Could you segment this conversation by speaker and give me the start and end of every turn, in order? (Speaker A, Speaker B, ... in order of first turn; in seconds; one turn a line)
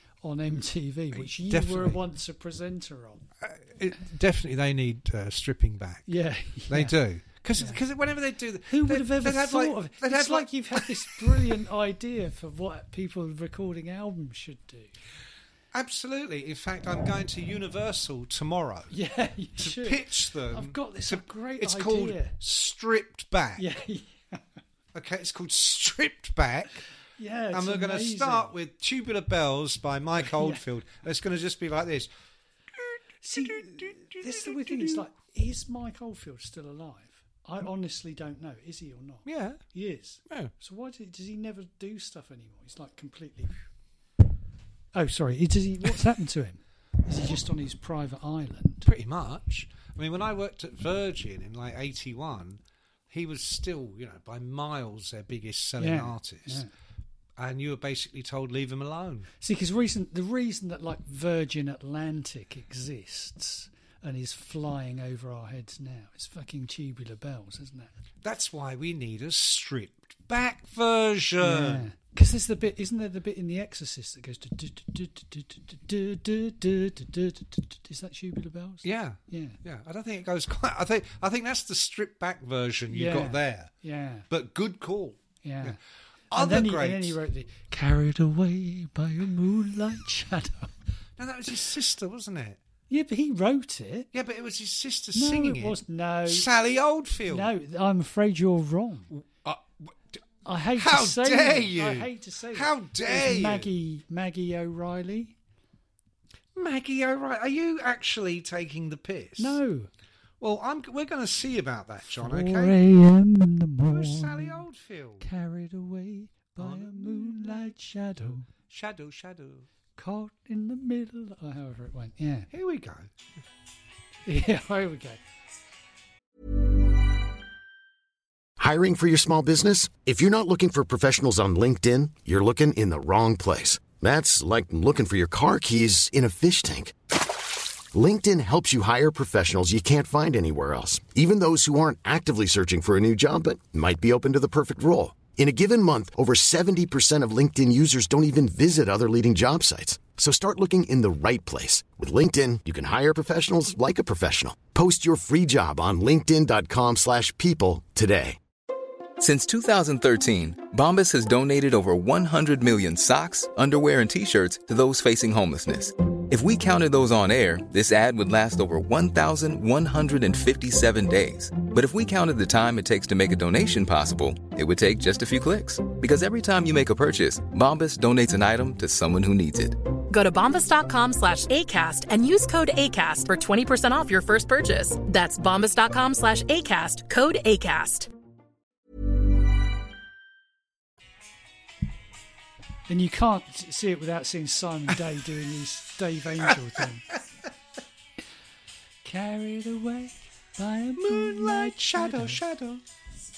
Speaker A: 0.2-3.3
Speaker B: 1.1-2.0
Speaker B: 3.4-6.1
Speaker A: 6.1-7.0
Speaker B: 6.7-11.5
Speaker A: 7.6-7.8
Speaker A: 8.7-14.9
Speaker B: 15.7-18.9
Speaker A: 18.9-22.4
Speaker B: 19.6-23.7
Speaker A: 23.6-24.4
Speaker B: 24.9-26.9
Speaker A: 27.2-28.5
Speaker B: 27.5-32.1
Speaker A: 30.2-30.6
Speaker B: 32.8-35.0
Speaker A: 33.2-43.6
Speaker B: 39.3-39.6
Speaker A: 45.0-48.9
Speaker B: 48.9-52.6
Speaker B: 53.1-56.6
Speaker A: 55.8-56.7
Speaker B: 57.4-59.3
Speaker A: 59.4-67.9
Speaker B: 68.2-71.9
Speaker A: 71.4-79.6
Speaker B: 78.8-83.7
Speaker A: 82.9-84.3
Speaker B: 84.3-85.8
Speaker A: 85.4-85.8
Speaker B: 86.3-87.2
Speaker A: 86.3-90.7
Speaker B: 91.2-92.6
Speaker A: 92.9-94.1
Speaker B: 94.1-97.5
Speaker A: 95.1-96.5
Speaker A: 97.3-99.1
Speaker B: 99.1-100.2
Speaker A: 100.5-105.3
Speaker B: 100.8-103.7
Speaker B: 106.6-109.6
Speaker A: 109.4-109.9
Speaker B: 110.4-112.8
Speaker A: 112.2-114.6
Speaker B: 113.9-115.3
Speaker A: 115.2-118.5
Speaker B: 116.6-117.7
Speaker B: 118.6-119.7
Speaker A: 120.0-122.5
Speaker B: 122.5-123.1
Speaker A: 124.3-125.2
Speaker C: 128.6-136.9
Speaker C: 137.9-158.4
Speaker D: 159.2-179.8
Speaker E: 180.1-188.1
Speaker A: 192.9-197.1
Speaker A: 199.0-202.4
Speaker B: 201.0-202.8